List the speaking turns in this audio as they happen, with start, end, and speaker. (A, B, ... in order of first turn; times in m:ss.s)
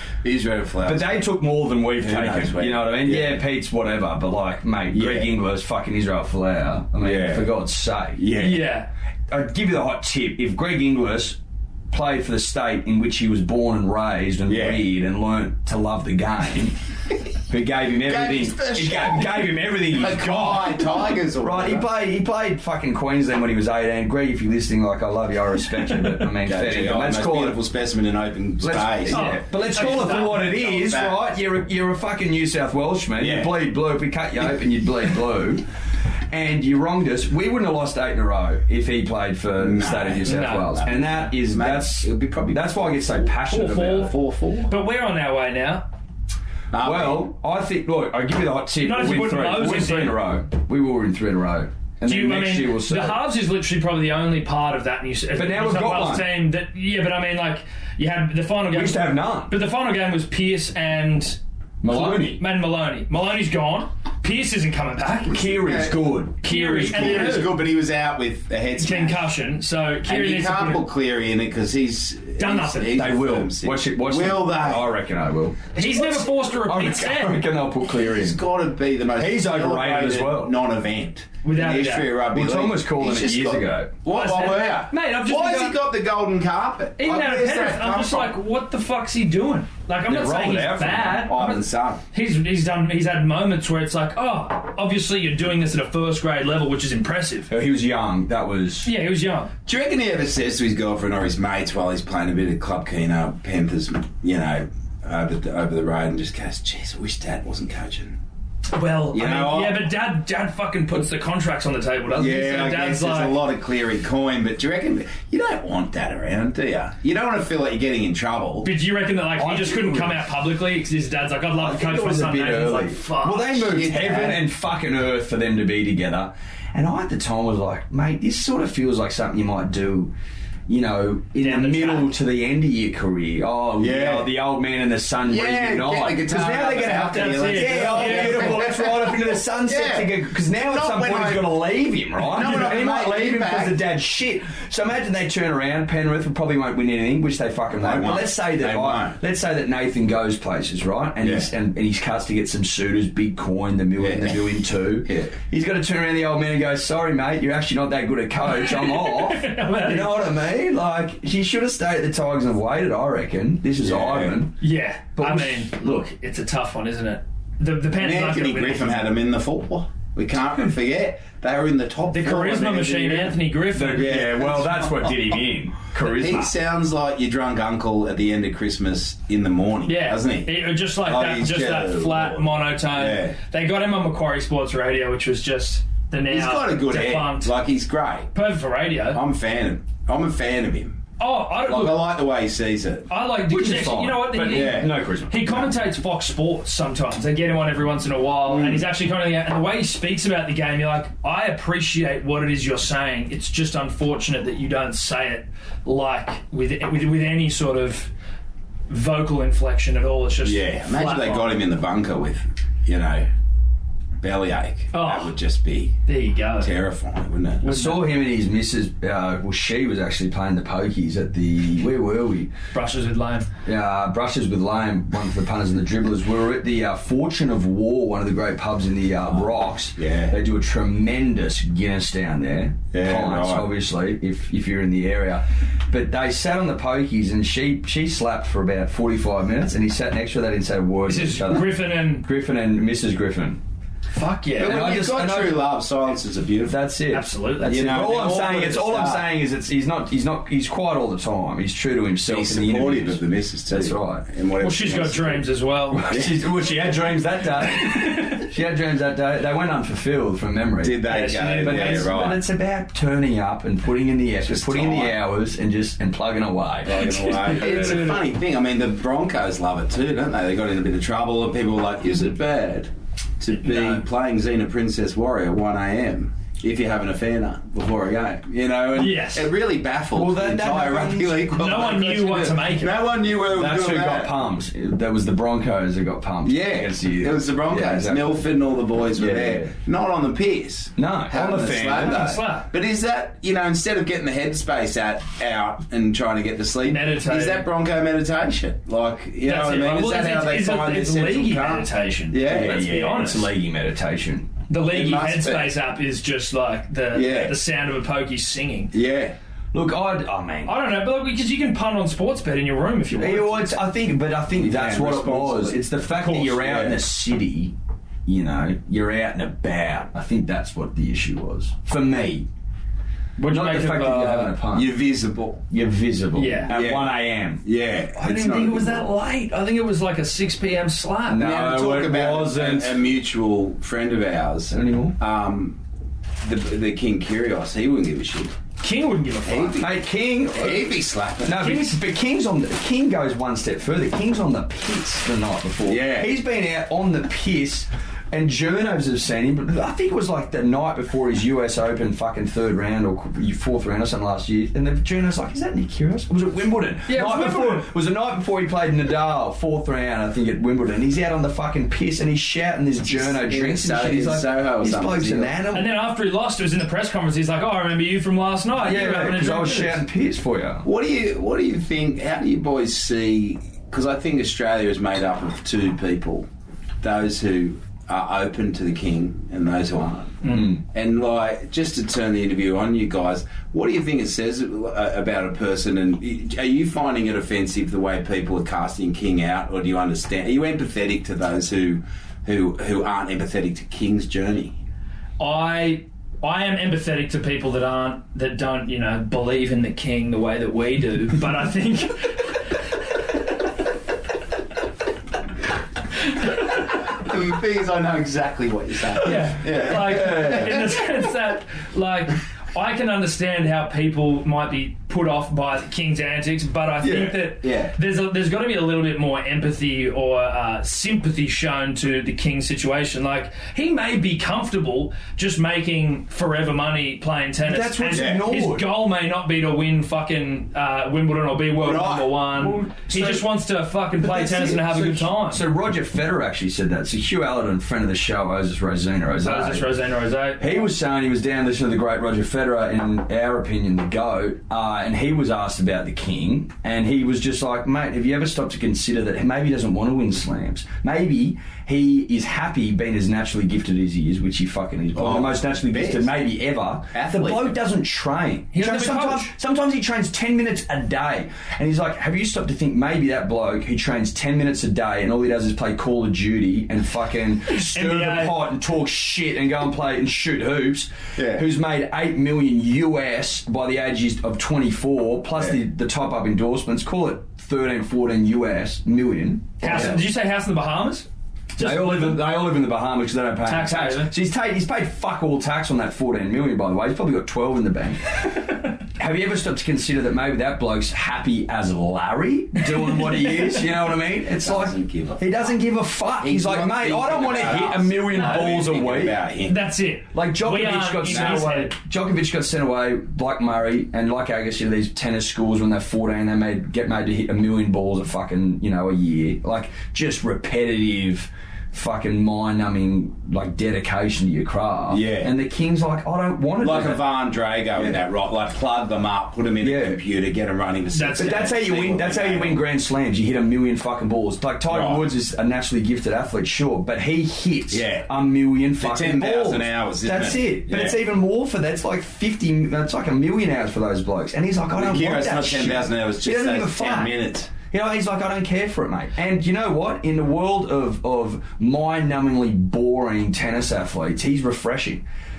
0:00.2-0:01.2 A
0:00.8-0:08.3 B
0:02.0-0:03.4 A
0:04.9-0:05.3 A
0:07.0-0:07.5 A
0:08.2-0:08.7 A
0:08.4-0:08.9 C
0:09.3-0:11.4 B
0:11.9-0:16.8 B
0:14.5-0:14.8 A
0:17.5-0:27.6 B
0:18.0-0:21.9 A
0:26.4-0:31.2 A
0:28.6-0:35.6 B
0:29.1-0:30.4 C
0:33.2-0:33.5 A
0:36.3-0:44.1 B
0:39.6-0:43.3 A
0:40.2-0:40.7 C
0:43.5-0:44.1 C
0:44.0-0:44.7 A
0:44.6-0:45.8 C
0:46.7-0:47.3 A
0:46.8-0:53.2 B
0:48.8-0:50.2 C
0:52.0-1:05.5 C
0:55.4-0:56.3 B
0:58.7-0:59.5 B
1:01.8-1:02.4 B
1:05.3-1:07.4 B
1:05.4-1:09.3 A
1:06.4-1:07.6 C
1:08.8-1:10.8 C
1:10.0-1:14.9 A
1:12.4-1:13.1 C
1:12.9-1:18.4 B
1:15.7-1:17.4 C
1:17.9-1:28.3 A
1:19.2-1:20.5 B
1:21.4-1:22.1 C
1:22.3-1:23.9 B
1:24.1-1:25.8 C
1:27.0-1:37.5 C
1:30.1-1:31.3 B
1:31.2-1:32.0 A
1:37.5-1:38.9 B
1:38.8-1:39.5 C
1:39.6-1:48.2 A
1:48.7-1:53.4 C
1:49.1-1:49.9 A
1:52.1-1:58.7 A
1:58.6-2:03.7 C
1:59.4-2:00.2 B
2:01.6-2:10.1 B
2:03.6-2:04.4 A
2:10.7-2:44.6 B
2:11.4-2:12.1 C
2:13.8-2:14.3 A
2:15.2-2:21.6 A
2:16.7-2:18.7 C
2:22.2-2:23.8 A
2:27.7-2:29.2 A
2:31.2-2:31.5 A
2:34.0-2:35.4 A
2:38.5-2:40.3 C
2:43.8-2:44.4 A
2:44.6-2:49.0 C
2:45.2-2:46.1 B
2:48.0-2:53.4 A
2:52.1-2:54.4 C
2:53.7-2:56.5 B
2:53.9-2:55.2 A
2:56.0-3:03.4 A
2:59.8-3:07.5 C
3:06.3-3:08.3 A
3:08.3-3:09.2 C
3:09.1-3:11.0 A
3:11.2-3:12.1 C
3:11.6-3:13.1 A
3:13.1-3:28.1 C
3:13.5-3:15.7 B
3:14.4-3:14.9 A
3:18.5-3:18.9 A
3:28.9-3:31.6 C
3:30.4-3:33.3 A
3:34.2-3:36.0 A
3:34.9-3:35.3 C
3:36.0-3:36.7 C
3:36.6-3:37.7 A
3:37.6-3:38.1 C
3:37.6-3:42.5 B
3:42.7-3:43.5 C
3:43.6-4:03.6 B
3:49.3-3:50.4 A
3:52.9-3:53.7 A
4:01.0-4:02.2 C
4:04.1-4:04.8 C
4:04.6-4:06.8 A
4:04.6-4:05.7 B
4:06.7-4:14.2 B
4:07.1-4:07.9 C
4:07.6-4:09.2 A
4:12.3-4:15.5 A
4:14.6-4:16.2 C
4:15.9-4:28.1 B
4:16.1-4:16.4 A
4:20.8-4:22.4 A
4:21.0-4:22.1 C
4:24.4-4:25.2 A
4:26.8-4:44.4 A
4:27.0-4:28.2 C
4:33.6-4:34.0 C
4:38.9-4:39.5 C
4:40.1-4:41.8 B
4:41.5-4:43.0 C
4:43.5-4:48.4 B
4:46.4-5:02.9 A
4:49.2-4:49.7 B
4:51.0-4:52.4 B
4:52.0-4:52.7 C
4:56.8-4:57.6 C
4:59.4-5:03.5 C
5:02.4-5:04.5 B
5:04.7-5:08.9 C
5:04.9-5:05.7 A
5:07.1-5:07.6 A
5:08.9-5:09.4 A
5:09.7-5:10.8 B
5:10.6-5:13.7 C
5:13.2-5:17.7 B
5:14.5-5:17.0 A
5:18.2-5:22.5 B
5:23.4-5:24.5 C
5:23.5-5:24.9 B
5:24.7-5:25.6 A
5:25.7-5:27.6 B
5:26.3-5:26.7 C
5:26.7-5:29.1 A
5:28.2-5:31.5 C
5:31.3-5:33.0 B
5:31.4-5:35.8 A
5:34.7-5:35.2 B
5:36.4-5:38.6 A
5:38.8-5:39.8 C
5:39.4-5:41.8 A
5:39.8-5:40.9 B
5:41.4-6:05.9 B
5:41.6-5:41.9 C
5:45.8-5:46.3 A
5:57.1-5:57.9 C
6:03.0-6:05.5 A
6:05.7-6:10.0 C
6:08.8-6:10.8 B
6:10.8-6:16.5 A
6:17.0-6:34.8 A
6:20.5-6:20.8 B
6:35.4-6:42.5 C
6:47.1-6:50.8 A
6:49.2-7:15.6 C
6:49.7-6:50.8 B
6:57.1-6:57.9 A
7:07.6-7:08.9 B
7:08.1-7:08.4 A
7:11.8-7:12.4 A
7:12.6-7:13.5 B
7:14.2-7:19.9 B
7:19.4-7:20.9 C
7:20.6-8:00.2 B
7:35.1-7:36.3 A
7:37.1-7:37.8 A
7:38.7-7:39.5 C
7:47.7-7:48.5 C
7:51.4-7:51.6 A
7:59.8-8:02.4 C
7:59.9-8:00.2 A
8:01.8-8:19.4 B
8:03.6-8:04.3 C
8:14.6-8:15.6 A
8:16.4-8:19.8 A
8:18.4-8:18.6 C
8:19.6-8:21.9 C
8:20.3-8:37.2 B
8:21.3-8:21.6 A
8:35.1-8:35.5 A
8:36.8-8:42.8 A
8:39.8-8:40.2 B
8:41.1-8:41.7 C
8:41.4-9:05.2 B
8:44.9-8:45.3 A
8:47.9-8:48.3 A
8:49.0-8:51.2 A
8:54.9-8:57.7 A